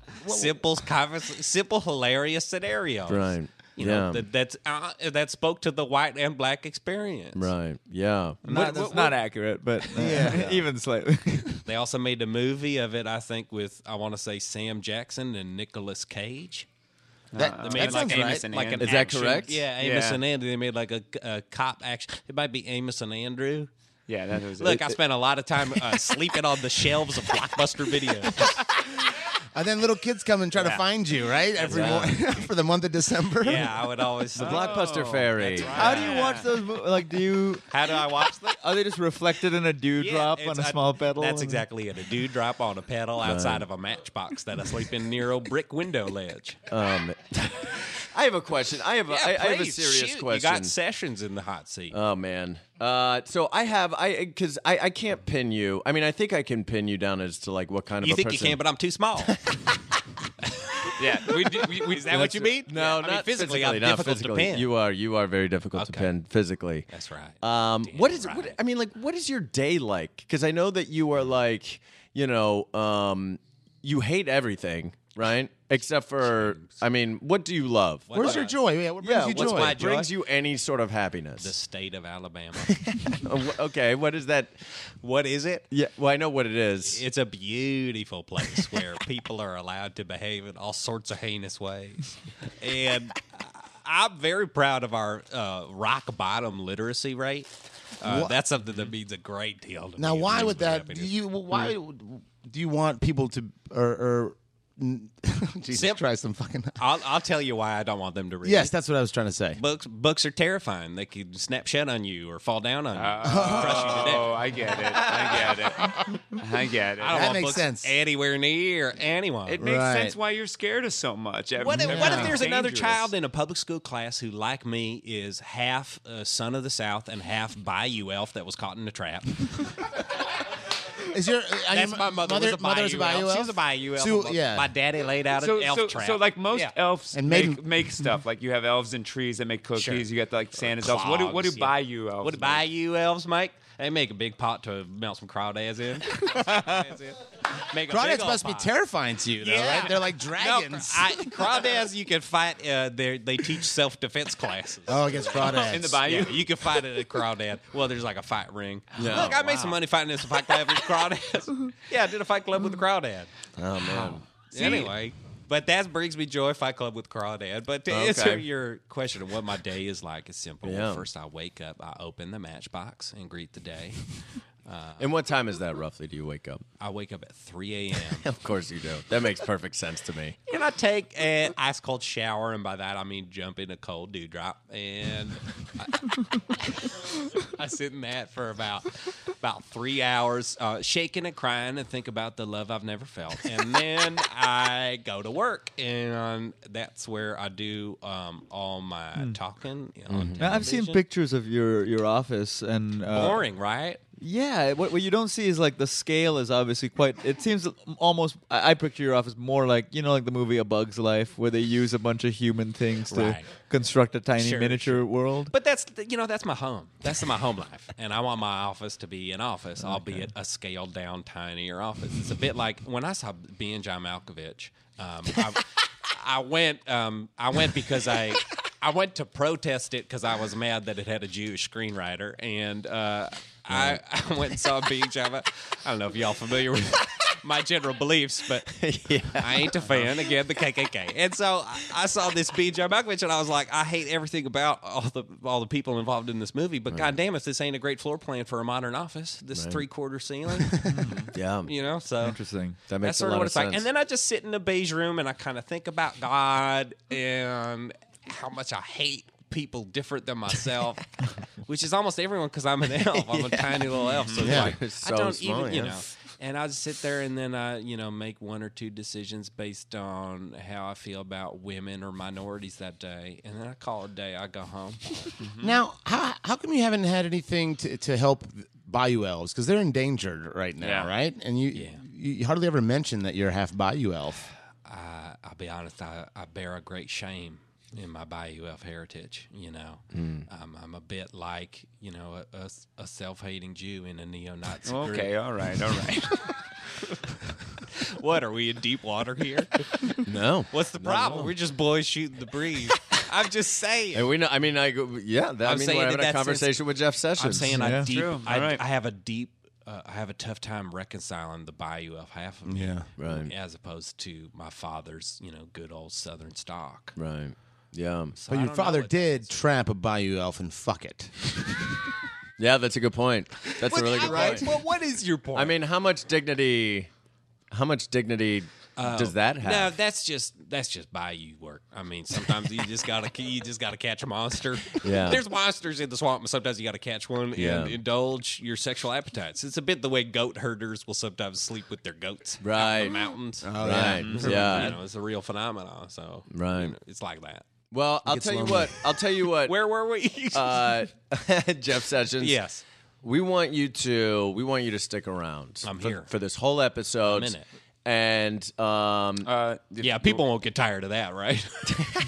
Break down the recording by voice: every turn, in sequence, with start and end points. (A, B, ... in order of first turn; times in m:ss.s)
0:00.2-0:00.6 A
0:00.2-0:07.5 B
0:03.1-0:04.2 C
0:07.4-0:08.4 C
0:08.4-0:09.2 B
0:08.5-0:11.6 D
0:10.0-0:10.3 A
0:10.1-0:10.6 C
0:11.6-0:16.7 B
0:17.3-0:20.2 E
0:17.4-0:18.5 A
0:17.5-0:23.7 B
0:18.6-0:19.7 C
0:24.1-0:25.0 E
0:24.6-0:28.5 B
0:29.5-0:33.7 A
0:30.5-0:30.8 B
0:31.4-0:32.4 B
0:31.7-0:32.0 E
0:33.4-0:36.4 B
0:34.3-0:36.1 C
0:34.4-0:36.5 E
0:35.7-0:37.6 D
0:37.7-0:38.6 B
0:38.6-0:41.6 D
0:40.0-0:46.6 B
0:43.2-0:43.7 C
0:46.7-0:50.8 C
0:49.1-0:52.0 B
0:51.9-0:58.6 C
0:58.0-0:59.4 B
1:01.0-1:02.6 E
1:01.4-1:04.7 B
1:02.1-1:06.9 C
1:05.7-1:06.1 B
1:06.9-1:08.6 B
1:07.4-1:18.4 C
1:16.2-1:16.8 B
1:18.1-1:18.6 B
1:18.1-1:19.8 A
1:19.0-1:21.5 C
1:19.2-1:20.1 B
1:21.4-1:22.7 B
1:23.2-1:24.6 C
1:25.0-1:25.6 B
1:25.7-1:27.0 C
1:26.8-1:32.0 B
1:32.6-1:37.5 B
1:38.0-1:41.7 B
1:38.0-1:38.3 A
1:40.0-1:46.8 A
1:45.7-1:46.0 B
1:46.8-1:48.7 B
1:48.4-1:49.6 A
1:49.5-1:54.3 B
1:52.9-1:55.8 E
1:53.2-1:54.2 A
1:56.4-1:57.5 E
1:57.0-1:59.6 B
1:57.0-1:58.0 A
1:59.5-2:03.1 E
1:59.6-2:00.1 A
2:01.6-2:09.3 B
2:01.7-2:02.4 A
2:11.1-2:14.7 A
2:11.7-2:16.7 B
2:15.3-2:22.6 E
2:17.1-2:17.6 A
2:19.7-2:27.2 B
2:27.7-2:28.7 B
2:27.9-2:31.4 A
2:29.4-2:43.3 B
2:34.8-2:36.0 A
2:35.3-2:36.5 E
2:39.0-2:39.7 C
2:43.6-2:44.8 C
2:43.8-2:44.9 E
2:44.5-2:54.0 B
2:47.9-2:48.5 C
2:50.6-2:51.1 C
2:54.6-2:55.1 B
2:55.0-2:56.6 C
2:56.8-2:58.2 B
2:58.1-3:00.4 C
3:00.5-3:05.9 B
3:07.6-3:21.0 B
3:20.1-3:20.7 C
3:20.4-3:23.4 D
3:23.1-3:24.0 B
3:24.2-3:35.5 D
3:33.1-3:33.6 B
3:34.4-4:10.9 B
3:39.8-3:40.3 D
3:53.7-3:54.0 C
3:58.7-4:00.1 C
4:06.9-4:07.2 C
4:09.5-4:09.8 C
4:10.9-4:11.2 D
4:11.3-4:11.7 C
4:11.6-4:12.4 B
4:12.2-4:12.8 D
4:12.9-4:13.9 C
4:12.9-4:21.0 B
4:21.6-4:35.3 B
4:23.0-4:26.0 C
4:24.1-4:24.6 E
4:24.4-4:24.7 A
4:35.4-4:35.8 E
4:35.6-4:44.4 A
4:40.8-4:41.1 E
4:41.7-4:42.0 B
4:44.8-4:55.3 B
4:50.1-4:50.4 C
4:54.8-4:56.4 E
4:58.2-4:59.7 B
5:00.2-5:01.5 C
5:00.7-5:04.3 B
5:04.1-5:07.9 C
5:05.6-5:06.8 B
5:07.4-5:17.1 B
5:07.6-5:08.1 D
5:07.9-5:08.8 E
5:12.6-5:13.1 A
5:13.2-5:13.5 C
5:17.2-5:18.3 C
5:18.4-5:19.5 B
5:18.5-5:21.7 A
5:22.6-5:24.8 C
5:23.8-5:25.8 B
5:24.2-5:24.5 A
5:25.5-5:27.1 C
5:27.7-5:30.0 C
5:29.0-5:47.6 B
5:35.0-5:35.4 C
5:37.5-5:38.0 C
5:42.6-5:43.2 C
5:43.6-5:44.8 A
5:43.8-5:45.0 C
5:44.0-5:44.9 E
5:46.5-5:47.0 C
5:47.9-5:49.8 C
5:48.2-5:49.0 A
5:49.7-5:50.9 B
5:50.5-5:52.6 C
5:52.4-5:52.8 B
5:53.2-5:59.5 C
5:55.8-5:56.3 B
5:57.2-5:57.6 B
5:59.4-6:00.4 E
6:00.0-6:02.0 B